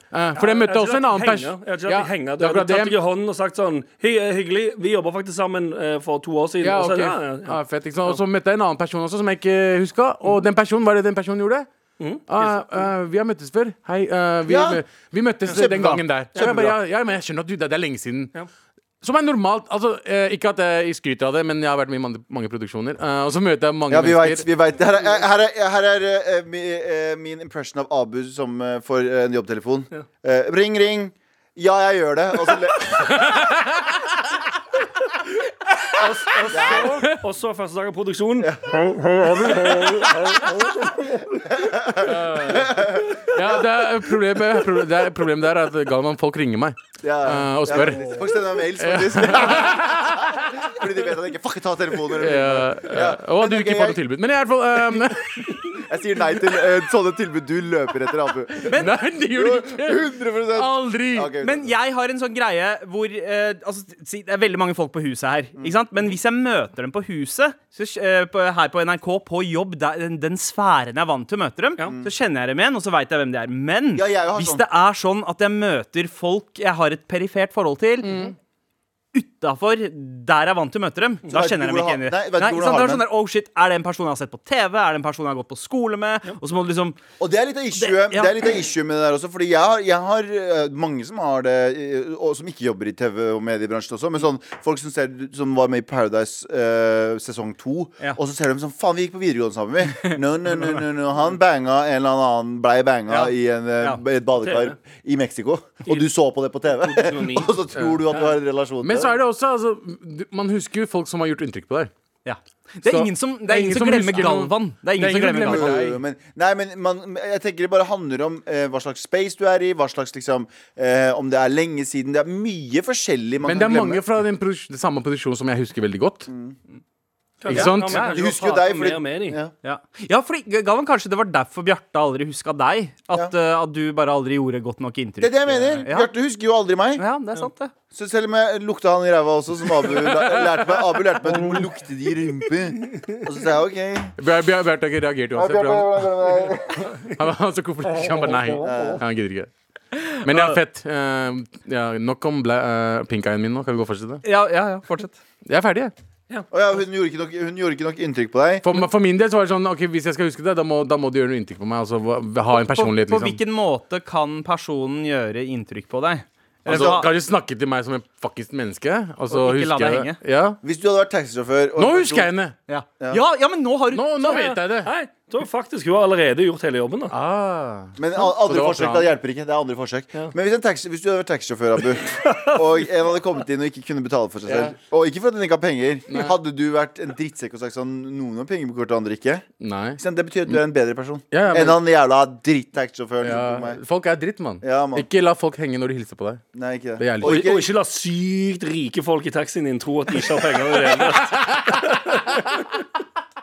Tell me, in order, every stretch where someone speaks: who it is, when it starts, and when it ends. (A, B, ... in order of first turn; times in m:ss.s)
0:00.1-0:03.0 A
0:00.4-0:08.2 B
0:06.6-0:11.7 A
0:12.0-0:12.9 B
0:12.3-0:18.4 A
0:14.5-0:14.8 C
0:15.5-0:16.8 C
0:16.4-0:16.7 B
0:19.0-0:24.4 A
0:23.9-0:33.2 C
0:33.0-0:34.0 A
0:36.0-0:41.4 B
0:36.4-0:37.1 C
0:36.6-0:37.2 A
0:38.4-0:40.3 C
0:41.4-0:43.6 C
0:42.0-0:50.8 A
0:47.0-0:54.0 C
0:52.2-0:55.8 A
0:55.6-1:01.8 C
0:58.6-1:01.3 A
1:01.4-1:18.3 D
1:11.8-1:12.1 C
1:13.9-1:14.6 C
1:19.1-1:27.0 D
1:21.3-1:23.1 C
1:27.2-1:49.1 C
1:27.8-1:28.4 D
1:43.1-1:44.5 D
1:46.8-1:47.6 B
1:48.8-1:51.9 A
1:52.2-1:55.8 D
1:52.9-1:56.0 A
1:55.4-2:04.0 C
2:03.4-2:06.3 A
2:06.3-2:06.6 C
2:07.4-2:09.4 B
2:07.5-2:08.2 A
2:07.5-2:08.2 D
2:08.0-2:09.5 C
2:09.6-2:16.1 D
2:15.2-2:17.0 C
2:17.0-2:17.7 D
2:17.9-2:24.2 C
2:20.0-2:20.7 A
2:24.2-2:26.1 A
2:25.3-2:27.2 C
2:27.0-2:29.5 A
2:28.6-2:29.0 C
2:30.0-2:30.6 D
2:30.2-2:34.2 A
2:34.2-2:35.2 D
2:35.4-2:35.9 A
2:36.5-2:38.7 C
2:38.6-2:43.4 A
2:42.5-2:47.1 D
2:46.7-2:50.6 A
2:46.7-2:47.0 C
2:49.3-2:50.2 D
2:50.6-2:52.3 C
2:51.8-2:52.6 A
2:52.7-2:54.4 D
2:53.9-2:54.9 A
2:54.2-2:57.2 B
2:57.1-2:59.1 A
2:58.0-3:09.4 C
3:02.2-3:02.6 B
3:04.5-3:04.8 A
3:06.1-3:06.4 A
3:09.6-3:10.6 A
3:10.0-3:13.8 C
3:11.3-3:11.8 A
3:13.2-3:16.4 A
3:14.6-3:15.1 C
3:16.5-3:17.7 C
3:17.0-3:17.5 A
3:17.2-3:22.4 B